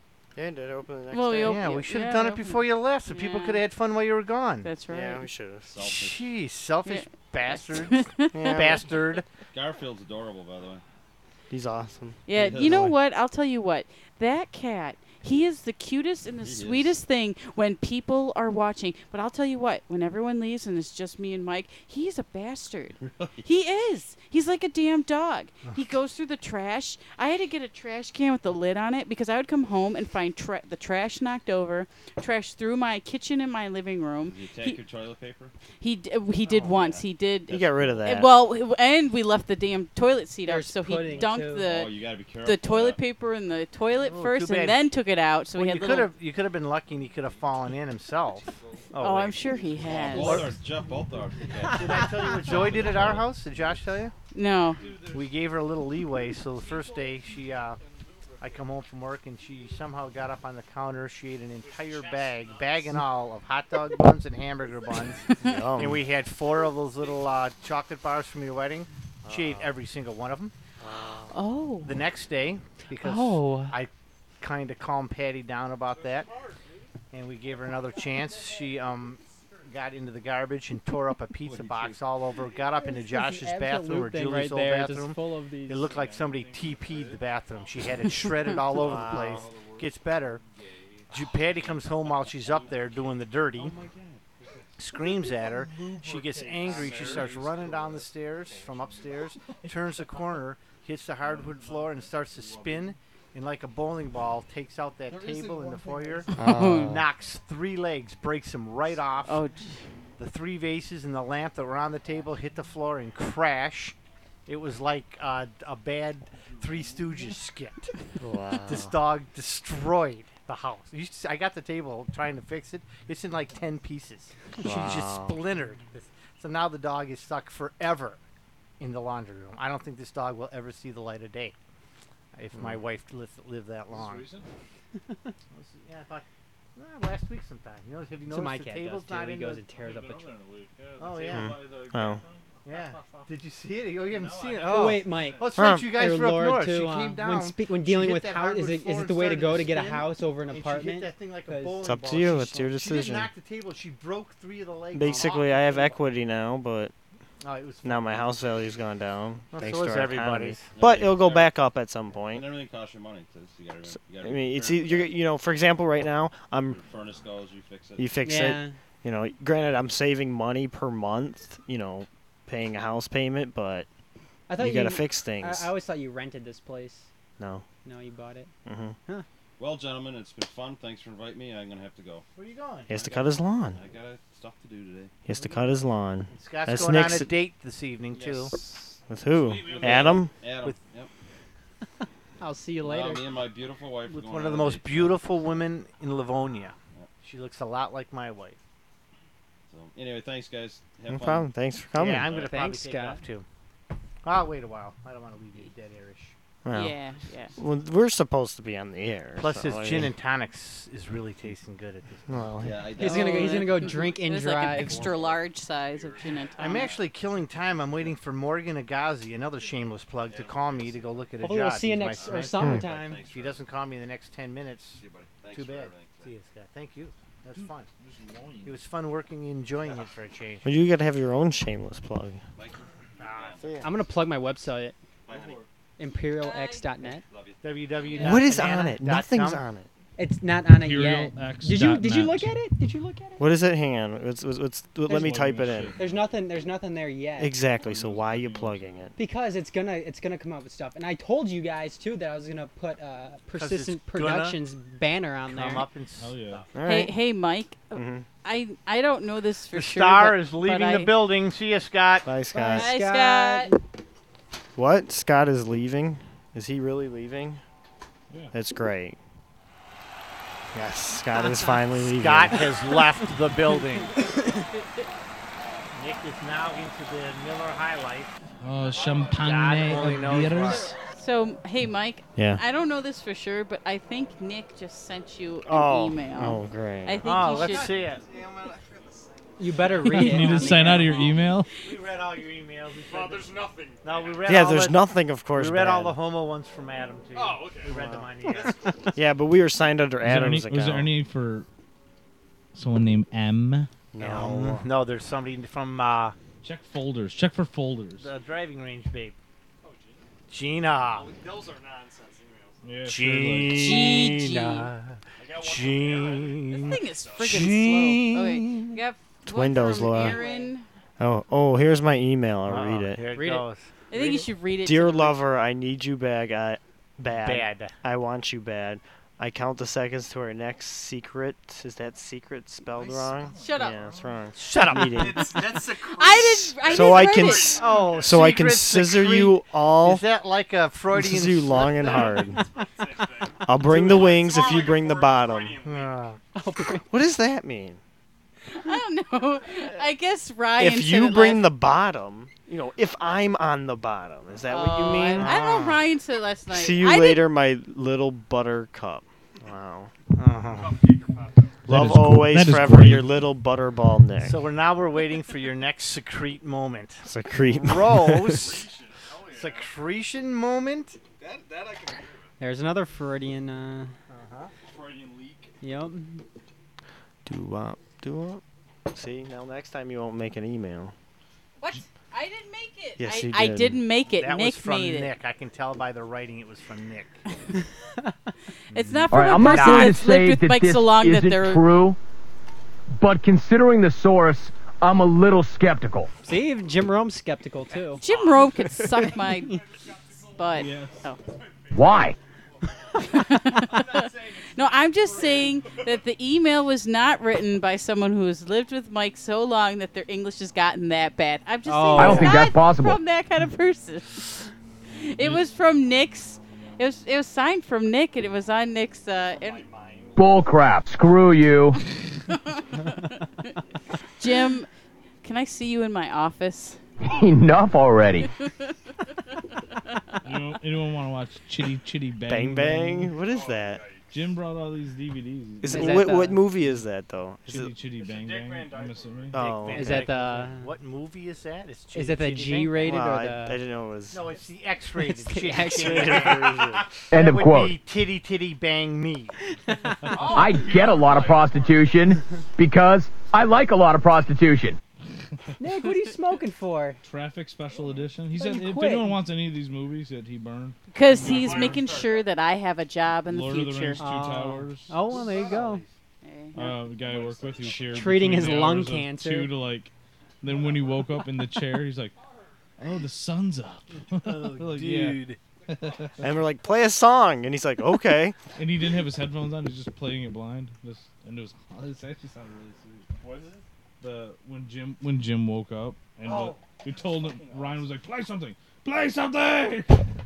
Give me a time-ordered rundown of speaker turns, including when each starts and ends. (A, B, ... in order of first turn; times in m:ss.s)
0:00.4-0:01.7 A
0:01.1-0:03.6 B
0:01.4-0:04.7 C
0:04.6-0:05.3 B
0:04.9-0:05.7 A
0:05.7-0:06.3 D
0:05.9-0:09.2 C
0:06.8-0:08.6 B
0:08.3-0:08.9 A
0:09.5-0:10.8 D
0:11.5-0:12.3 A
0:12.3-0:34.8 B
0:12.3-0:12.9 D
0:16.4-0:17.0 D
0:23.0-0:23.4 D
0:34.2-0:35.5 D
0:35.8-0:46.1 B
0:36.5-0:38.1 D
0:37.5-0:38.3 A
0:40.4-0:41.7 E
0:41.6-0:43.0 D
0:44.0-0:44.8 C
0:45.5-0:50.6 C
0:49.0-0:50.5 B
0:49.8-0:53.3 D
0:51.7-0:54.1 C
0:54.3-0:54.8 B
0:54.8-0:55.2 F
0:55.1-0:57.8 C
0:58.4-1:10.5 C
1:05.3-1:05.6 B
1:05.4-1:06.0 A
1:09.2-1:09.7 A
1:10.8-1:11.3 A
1:11.3-1:12.0 B
1:11.8-1:16.3 C
1:13.0-1:13.7 E
1:17.1-1:30.4 C
1:21.4-1:22.0 D
1:23.1-1:25.9 E
1:25.9-1:27.2 F
1:28.8-1:29.5 A
1:28.9-1:29.8 F
1:30.6-1:31.1 G
1:31.1-1:33.8 C
1:33.6-1:34.2 D
1:34.8-1:49.4 C
1:35.0-1:38.0 F
1:36.7-1:37.4 G
1:45.1-1:46.3 F
1:46.4-1:47.0 A
1:46.4-1:46.9 B
1:49.2-1:49.8 B
1:50.2-1:54.0 C
1:54.5-1:57.9 C
1:58.2-1:58.9 A
1:58.6-2:08.2 C
2:04.6-2:05.4 A
2:08.8-2:11.5 C
2:12.3-2:14.3 C
2:12.5-2:12.8 A
2:13.9-2:14.5 G
2:15.5-2:19.6 C
2:18.3-2:20.4 E
2:19.9-2:20.1 F
2:19.9-2:22.2 G
2:21.0-2:21.6 C
2:21.0-2:23.2 F
2:21.3-2:22.2 A
2:22.6-2:35.7 C
2:24.1-2:25.6 F
2:24.6-2:31.8 E
2:25.6-2:26.1 A
2:31.8-2:33.3 A
2:34.9-2:36.9 A
2:37.4-2:38.4 C
2:37.8-2:42.5 A
2:39.5-2:40.7 C
2:40.7-2:41.6 D
2:42.2-2:45.2 D
2:44.1-2:46.8 A
2:46.6-2:48.2 D
2:48.0-2:53.9 A
2:48.2-2:48.8 E
2:54.5-2:57.1 E
2:54.6-2:55.7 A
2:57.4-2:57.6 A
2:57.8-2:58.5 E
2:58.6-2:59.0 A
2:59.6-3:02.2 D
3:02.4-3:03.0 C
3:02.9-3:03.8 A
3:02.9-3:05.1 D
3:05.2-3:07.4 A
3:05.3-3:05.7 C
3:06.3-3:08.6 C
3:08.1-3:08.5 D
3:09.1-3:10.3 A
3:09.6-3:11.1 D
3:12.4-3:13.2 E
3:12.8-3:15.4 D
3:14.1-3:18.6 C
3:19.7-3:21.5 D
3:21.1-3:22.3 A
3:21.9-3:23.4 C
3:22.1-3:22.6 D
3:22.3-3:23.2 E
3:24.2-3:26.4 C
3:26.6-3:27.0 A
3:26.7-3:27.5 B
3:27.6-3:30.1 A
3:29.4-3:32.6 C
3:32.3-3:32.9 A
3:32.6-3:37.1 D
3:33.0-3:35.1 E
3:33.0-3:36.9 B
3:36.6-3:47.9 C
3:40.2-3:41.3 D
3:41.4-3:43.2 E
3:42.0-3:43.6 D
3:44.9-3:46.3 D
3:47.5-3:48.8 G
3:48.6-3:50.8 C
3:50.6-3:52.4 A
3:52.6-3:53.9 D
3:53.2-3:53.7 C
3:53.8-3:55.0 E
3:55.2-3:55.6 D
3:56.0-3:57.2 E
3:56.4-3:56.9 B
3:57.0-3:58.4 D
3:57.6-3:59.6 C
3:58.2-3:59.9 A
4:00.2-4:03.5 E
4:00.7-4:02.5 G
4:03.4-4:06.0 A
4:05.1-4:06.1 G
4:05.6-4:05.9 D
4:06.0-4:07.6 E
4:07.4-4:09.1 A
4:07.8-4:08.9 G
4:09.2-4:15.9 E
4:13.5-4:14.6 C
4:15.4-4:16.7 C
4:16.2-4:16.6 G
4:16.7-4:17.2 A
4:16.8-4:21.2 B
4:17.9-4:18.2 A
4:19.7-4:22.3 C
4:22.2-4:22.9 A
4:22.5-4:23.8 E
4:22.7-4:23.7 B
4:24.8-4:27.6 A
4:28.5-4:29.2 A
4:30.7-4:32.7 A
4:32.0-4:34.2 C
4:35.9-4:38.3 C
4:38.6-4:40.9 G
4:38.8-4:39.8 F
4:39.3-4:40.9 C
4:40.7-4:47.9 B
4:42.4-4:42.6 A
4:45.6-4:47.3 A
4:47.2-4:48.2 C
4:47.4-4:51.3 F
4:49.6-4:51.3 E
4:50.1-4:51.7 G
4:51.8-4:59.0 C
4:53.0-4:54.5 F
4:54.4-4:56.2 A
4:57.3-4:59.2 F
4:57.9-4:58.3 A
4:59.1-5:01.1 A
5:00.2-5:01.7 G
5:02.8-5:03.9 G
5:04.1-5:04.9 A
5:04.2-5:06.4 C
5:06.6-5:08.3 G
5:08.2-5:09.4 C
5:09.8-5:10.2 F
5:10.5-5:11.3 C
5:11.0-5:12.8 F
5:12.8-5:14.1 G
5:13.1-5:19.0 C
5:13.7-5:14.9 B
5:15.4-5:17.8 F
5:16.8-5:20.9 B
5:19.4-5:20.4 A
5:20.1-5:20.7 F
5:21.2-5:23.2 A
5:22.6-5:24.4 C
5:23.3-5:23.6 E
5:24.1-5:25.4 B
5:24.8-5:35.8 A
5:27.3-5:27.9 C
5:32.9-5:33.9 F
5:33.6-5:34.0 B
5:34.6-5:35.7 C
5:35.0-5:38.6 F
5:36.1-5:37.8 B
5:36.8-5:40.2 A
5:37.8-5:42.5 C
5:41.1-5:42.6 A
5:41.7-5:46.2 F
5:43.6-5:45.8 A
5:43.9-5:44.3 C
5:45.8-5:46.4 C
5:46.6-5:47.1 E
5:47.1-5:48.0 A
5:48.7-5:51.7 B
5:50.8-5:56.0 A
5:54.7-5:57.5 B
5:56.7-6:00.1 A
6:00.3-6:01.0 C
6:00.7-6:01.8 F
6:01.9-6:03.3 G
6:01.9-6:04.7 A
6:04.4-6:08.9 C
6:07.2-6:08.8 A
6:08.5-6:09.9 F
6:09.5-6:11.2 C
6:11.4-6:12.5 F
6:12.6-6:14.2 E
6:14.3-6:14.7 C
6:14.9-6:15.7 F
6:15.8-6:16.4 E
6:17.4-6:21.1 A
6:21.8-6:25.3 B
6:23.2-6:24.0 A
6:24.3-6:27.4 C
6:28.9-6:31.9 B
6:28.9-6:30.2 C
6:29.3-6:32.2 H
6:29.6-6:30.2 E
6:33.1-6:36.3 H
6:36.4-6:38.2 E
6:38.2-6:39.8 B
6:38.2-6:38.7 F
6:39.7-6:42.3 F
6:40.5-6:41.4 B
6:40.7-6:41.2 G
6:41.9-6:42.4 H
6:43.1-6:46.2 F
6:43.2-6:59.9 B
6:51.9-6:52.6 E
6:52.2-6:53.2 H
6:59.6-7:00.4 F
7:00.4-7:02.0 H
7:02.5-7:02.8 B
7:04.4-7:04.9 B
7:05.4-7:07.0 B
7:07.2-7:08.5 H
7:10.4-7:13.3 G
7:12.4-7:14.0 A
7:13.4-7:14.4 F
7:14.3-7:16.4 G
7:15.8-7:17.9 A
7:15.9-7:16.6 E
7:17.6-7:20.2 G
7:18.2-7:19.6 F
7:19.5-7:20.2 A
7:19.6-7:23.1 C
7:19.9-7:20.9 E
7:22.1-7:23.8 E
7:23.0-7:24.4 A
7:24.3-7:29.6 C
7:25.2-7:26.5 E
7:25.9-7:27.1 A
7:26.3-7:26.9 F
7:27.3-7:28.0 H
7:29.8-7:30.6 E
7:30.2-7:32.2 F
7:30.4-7:35.0 H
7:35.8-7:37.2 E
7:37.2-7:41.0 G
7:37.9-7:38.3 F
7:38.5-7:39.4 E
7:41.1-7:44.2 B
7:41.2-7:42.5 F
7:43.5-7:45.1 G
7:44.2-7:46.0 E
7:45.2-7:46.1 C
7:45.3-7:45.8 F
7:46.4-7:46.9 B
7:46.7-7:52.3 G
7:47.0-7:48.8 F
7:48.1-7:49.7 E
7:50.7-7:51.2 F
7:52.4-7:52.8 F
7:53.0-7:56.4 G
7:54.3-7:55.6 C
7:55.9-7:56.4 F
7:56.4-7:58.6 A
7:58.8-8:03.3 G
8:03.4-8:03.8 F
8:04.2-8:10.3 G
8:06.4-8:08.1 F